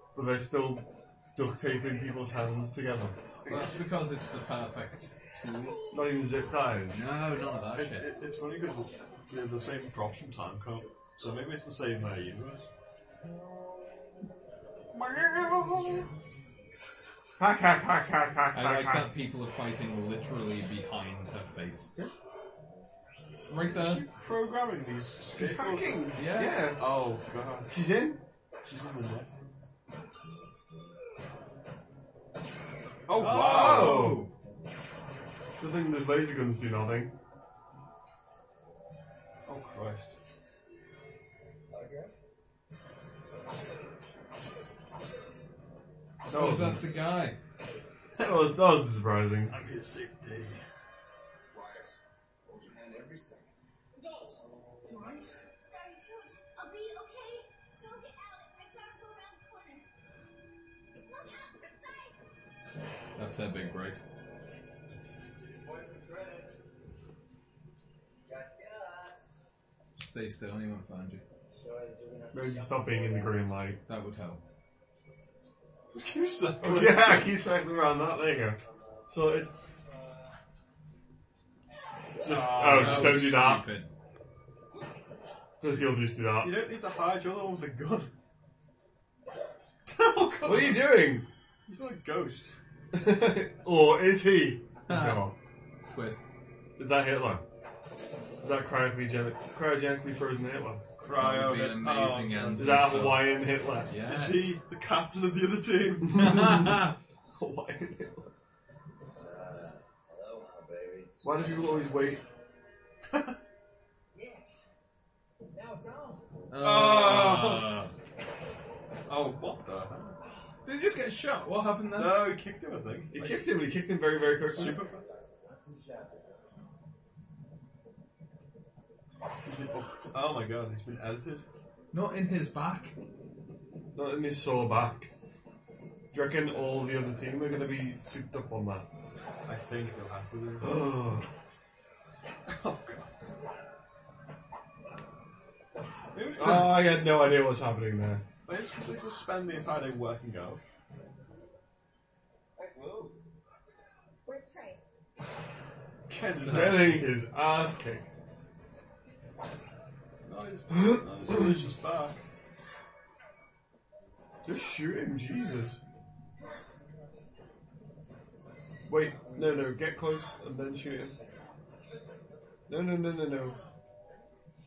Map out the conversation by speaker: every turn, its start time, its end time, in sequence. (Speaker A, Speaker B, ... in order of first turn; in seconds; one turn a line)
Speaker A: 0.1-3.2
Speaker B: 3.5-3.8
Speaker C: 3.5-5.8
Speaker A: 5.9-7.1
Speaker C: 6.9-8.1
Speaker B: 7.7-12.7
Speaker B: 14.9-16.0
Speaker A: 17.4-19.1
Speaker C: 18.5-21.9
Speaker C: 23.5-24.0
Speaker B: 23.6-26.2
Speaker A: 25.3-26.8
Speaker C: 26.1-26.6
Speaker B: 26.8-27.8
Speaker A: 27.7-28.2
Speaker B: 28.6-29.4
Speaker B: 33.1-34.1
Speaker C: 33.1-34.3
Speaker A: 33.4-34.3
Speaker A: 35.6-37.1
Speaker B: 39.5-40.1
Speaker D: 41.7-42.1
Speaker A: 46.3-46.9
Speaker C: 46.3-47.4
Speaker B: 48.2-48.5
Speaker A: 48.2-49.5
Speaker B: 49.5-50.6
Speaker D: 51.5-51.9
Speaker D: 52.5-53.5
Speaker E: 54.1-55.2
Speaker D: 54.4-55.0
Speaker F: 55.6-59.8
Speaker F: 61.1-62.0
Speaker C: 63.1-64.0
Speaker D: 65.4-66.6
Speaker D: 68.2-69.4
Speaker C: 70.0-71.2
Speaker D: 71.5-73.6
Speaker A: 72.3-73.8
Speaker C: 73.8-74.4
Speaker B: 75.9-77.3
Speaker A: 76.6-79.5
Speaker D: 78.7-79.0
Speaker D: 79.9-80.3
Speaker A: 82.2-83.7
Speaker B: 82.2-83.3
Speaker C: 82.5-83.9
Speaker A: 85.6-86.6
Speaker B: 86.4-88.1
Speaker B: 89.8-91.1
Speaker A: 90.4-91.3
Speaker B: 91.7-92.5
Speaker A: 92.9-95.4
Speaker C: 94.9-95.2
Speaker C: 95.9-96.3
Speaker A: 96.8-97.4
Speaker A: 98.4-100.8
Speaker B: 101.0-103.1
Speaker C: 101.1-104.6
Speaker A: 102.5-103.9
Speaker B: 104.0-106.5
Speaker A: 106.1-108.3
Speaker C: 106.2-106.9
Speaker D: 109.1-111.3
Speaker A: 111.2-112.2
Speaker E: 114.1-114.5
Speaker E: 115.5-116.3
Speaker C: 116.5-117.9
Speaker B: 116.6-117.9
Speaker B: 119.1-120.2
Speaker C: 120.6-122.4
Speaker B: 121.9-123.6
Speaker A: 123.1-124.8
Speaker B: 124.3-125.1
Speaker D: 124.8-126.5
Speaker B: 129.4-131.4
Speaker C: 131.9-132.9
Speaker A: 133.9-135.1
Speaker A: 136.1-138.9
Speaker B: 139.4-140.7
Speaker A: 140.6-141.3
Speaker B: 142.5-143.1
Speaker B: 146.1-146.9
Speaker A: 146.3-148.2
Speaker B: 148.4-150.6
Speaker D: 152.6-153.2
Speaker F: 154.2-154.8
Speaker B: 156.1-157.1
Speaker A: 156.4-158.1
Speaker B: 160.2-162.2
Speaker A: 160.8-161.4
Speaker A: 164.4-165.8
Speaker D: 166.4-167.1
Speaker A: 168.9-171.1
Speaker D: 168.9-169.8
Speaker D: 170.9-171.5
Speaker A: 172.7-173.6